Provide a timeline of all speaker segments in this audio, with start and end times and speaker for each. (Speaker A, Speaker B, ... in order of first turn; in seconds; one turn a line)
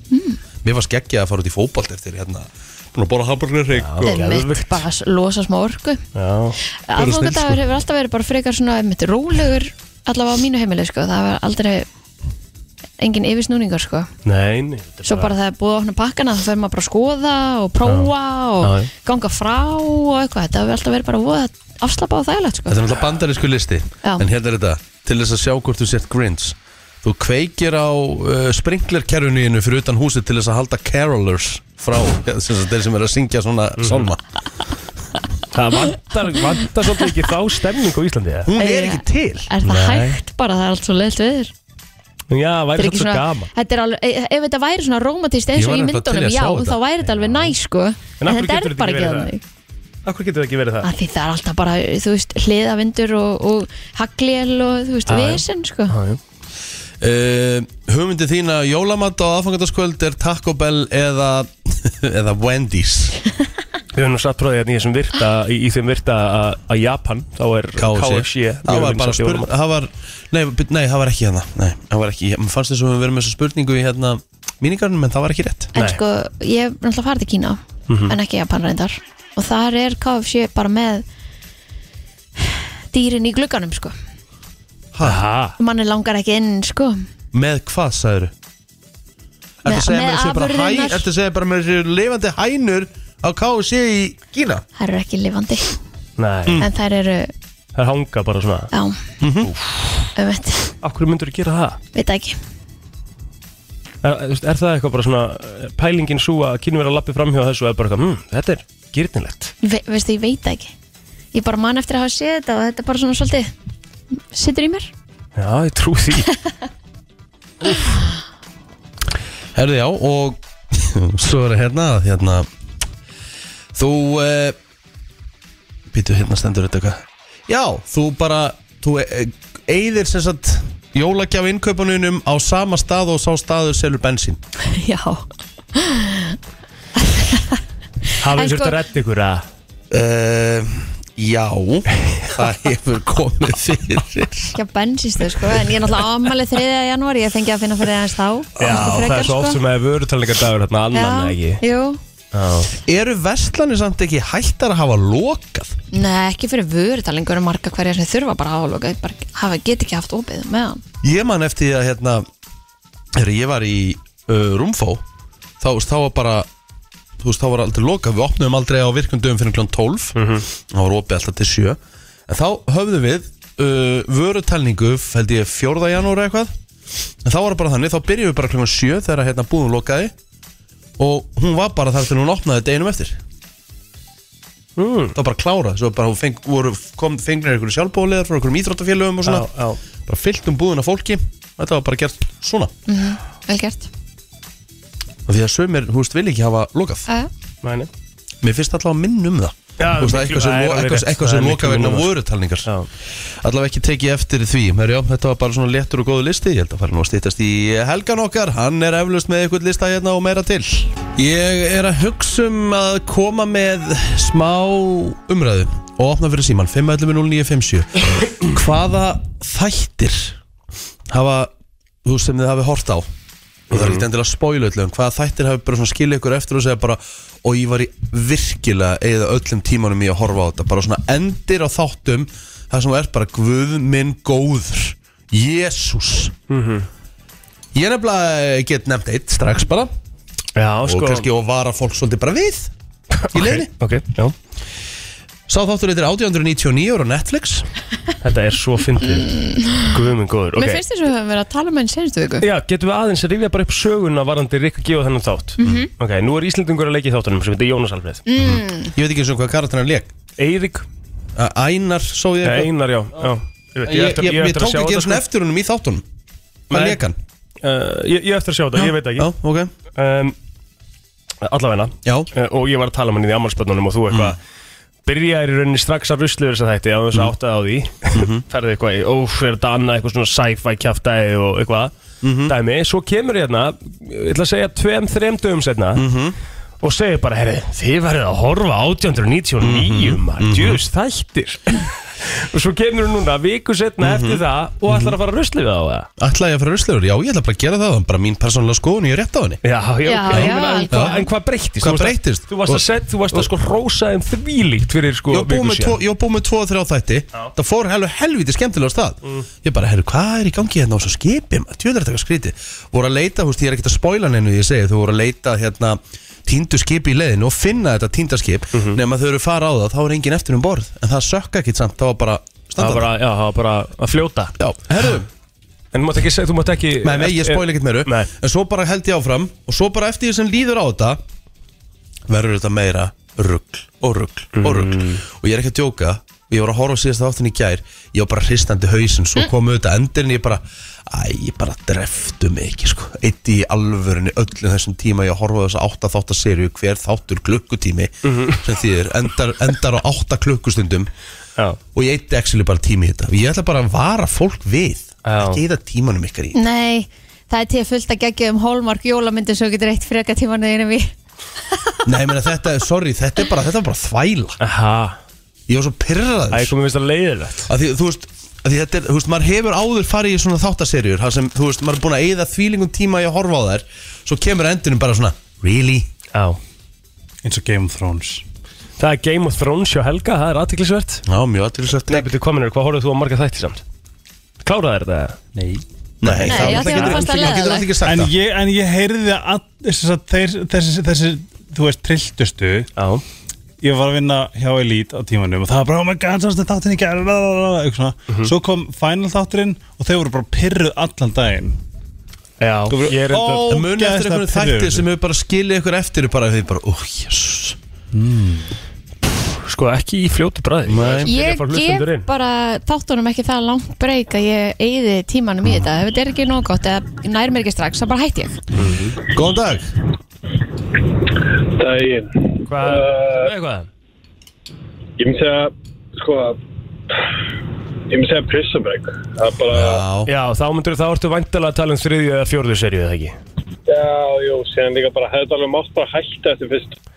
Speaker A: 0.1-0.4
Speaker B: 0.6-4.3
Speaker C: 3.7-4.8
Speaker A: 4.0-6.0
Speaker C: 6.1-6.6
Speaker A: 6.9-11.8
Speaker A: 13.0-14.1
Speaker C: 14.2-15.3
Speaker A: 15.0-22.8
Speaker C: 18.6-18.9
Speaker B: 22.7-34.2
Speaker C: 33.8-34.1
Speaker C: 35.5-38.5
Speaker B: 38.4-40.2
Speaker A: 38.5-41.5
Speaker C: 42.3-43.5
Speaker A: 42.8-49.4
Speaker B: 45.5-46.8
Speaker C: 47.1-47.5
Speaker C: 48.2-49.3
Speaker C: 50.0-50.9
Speaker A: 50.8-56.0
Speaker C: 55.1-56.2
Speaker B: 57.0-63.2
Speaker C: 63.9-69.5
Speaker B: 67.8-75.7
Speaker A: 75.7-81.0
Speaker C: 75.8-76.0
Speaker C: 77.9-78.1
Speaker A: 82.4-83.9
Speaker B: 84.9-85.2
Speaker C: 85.0-85.5
Speaker A: 85.6-87.0
Speaker B: 87.3-88.3
Speaker B: 89.6-94.6
Speaker A: 89.7-91.0
Speaker A: 94.8-95.7
Speaker C: 96.2-96.6
Speaker A: 96.6-97.3
Speaker C: 97.7-98.7
Speaker A: 98.7-99.0
Speaker B: 99.2-99.5
Speaker C: 99.4-100.1
Speaker A: 100.2-100.7
Speaker C: 100.8-101.8
Speaker A: 101.9-102.4
Speaker C: 104.0-109.5
Speaker A: 109.6-110.7
Speaker A: 111.3-113.5
Speaker A: 114.3-114.9
Speaker C: 115.3-116.3
Speaker B: 119.5-122.5
Speaker B: 123.7-124.6
Speaker B: 125.9-134.4
Speaker A: 134.6-136.4
Speaker A: 137.0-137.6
Speaker C: 138.2-139.4
Speaker A: 138.3-138.8
Speaker B: 139.9-144.6
Speaker A: 144.5-149.6
Speaker B: 148.6-149.2
Speaker C: 148.6-151.6
Speaker A: 150.9-152.0
Speaker C: 152.3-152.7
Speaker B: 152.8-155.7
Speaker A: 155.9-160.8
Speaker B: 161.0-162.2
Speaker B: 163.1-165.0
Speaker B: 165.6-166.5
Speaker B: 167.2-176.5
Speaker C: 170.2-170.4
Speaker B: 177.2-180.1
Speaker B: 181.0-183.2
Speaker C: 184.8-185.1
Speaker B: 185.1-189.5
Speaker C: 189.2-189.8
Speaker B: 190.1-192.7
Speaker A: 192.9-193.9
Speaker B: 195.3-197.1
Speaker C: 197.6-197.9
Speaker B: 198.4-202.7
Speaker C: 199.8-202.1
Speaker B: 203.2-220.4
Speaker B: 221.1-221.5
Speaker B: 222.0-223.1
Speaker B: 223.7-236.3
Speaker C: 223.7-224.0
Speaker C: 236.5-236.9
Speaker B: 237.7-239.9
Speaker C: 240.6-241.3
Speaker B: 240.8-242.7
Speaker C: 243.2-244.3
Speaker B: 243.3-243.7
Speaker B: 245.5-247.7
Speaker C: 248.2-250.8
Speaker A: 249.3-249.9
Speaker A: 250.5-252.4
Speaker C: 252.4-258.2
Speaker A: 255.6-255.9
Speaker A: 258.2-258.9
Speaker B: 258.4-260.1
Speaker C: 260.4-260.9
Speaker B: 261.3-262.7
Speaker C: 262.4-265.2
Speaker B: 263.9-266.0
Speaker C: 266.7-267.0
Speaker B: 266.7-267.2
Speaker C: 267.6-269.3
Speaker B: 269.1-269.7
Speaker C: 269.9-270.4
Speaker C: 271.4-274.4
Speaker B: 272.0-272.3
Speaker B: 274.1-274.4
Speaker C: 275.1-281.9
Speaker B: 278.1-278.4
Speaker B: 282.2-282.5
Speaker C: 282.5-286.0
Speaker B: 285.9-286.4
Speaker C: 286.8-296.1
Speaker B: 289.6-290.8
Speaker B: 294.0-295.1
Speaker B: 296.2-299.6
Speaker C: 299.6-306.0
Speaker A: 300.1-301.2
Speaker B: 300.3-301.2
Speaker B: 301.8-303.5
Speaker B: 305.3-323.1
Speaker C: 318.7-319.0
Speaker C: 322.8-324.6
Speaker B: 324.6-325.3
Speaker C: 325.9-328.3
Speaker B: 327.0-331.2
Speaker B: 332.3-351.1
Speaker C: 334.5-335.2
Speaker C: 348.2-348.6
Speaker B: 351.9-356.6
Speaker C: 355.2-355.6
Speaker A: 356.5-361.1
Speaker B: 362.0-364.6
Speaker C: 364.6-365.2
Speaker B: 365.7-366.7
Speaker C: 366.5-367.7
Speaker B: 367.7-376.1
Speaker C: 376.3-376.6
Speaker D: 377.4-378.4
Speaker C: 379.0-381.2
Speaker B: 381.3-382.3
Speaker C: 382.1-383.8
Speaker C: 384.6-385.4
Speaker D: 385.5-385.8
Speaker B: 386.2-388.3
Speaker A: 386.4-387.9
Speaker D: 386.5-386.9
Speaker C: 386.7-387.0
Speaker D: 388.0-392.9
Speaker C: 392.9-393.2
Speaker D: 393.8-401.8
Speaker C: 402.6-403.6
Speaker D: 402.9-405.0
Speaker B: 403.3-407.8
Speaker D: 408.1-408.7
Speaker C: 409.6-412.3
Speaker B: 410.9-411.3
Speaker A: 411.2-418.6
Speaker C: 418.8-419.2
Speaker B: 419.3-419.9
Speaker E: 421.7-423.5
Speaker C: 422.7-423.9
Speaker E: 425.2-426.6
Speaker E: 428.1-430.1
Speaker B: 429.7-430.3
Speaker C: 430.3-433.4
Speaker E: 433.9-437.0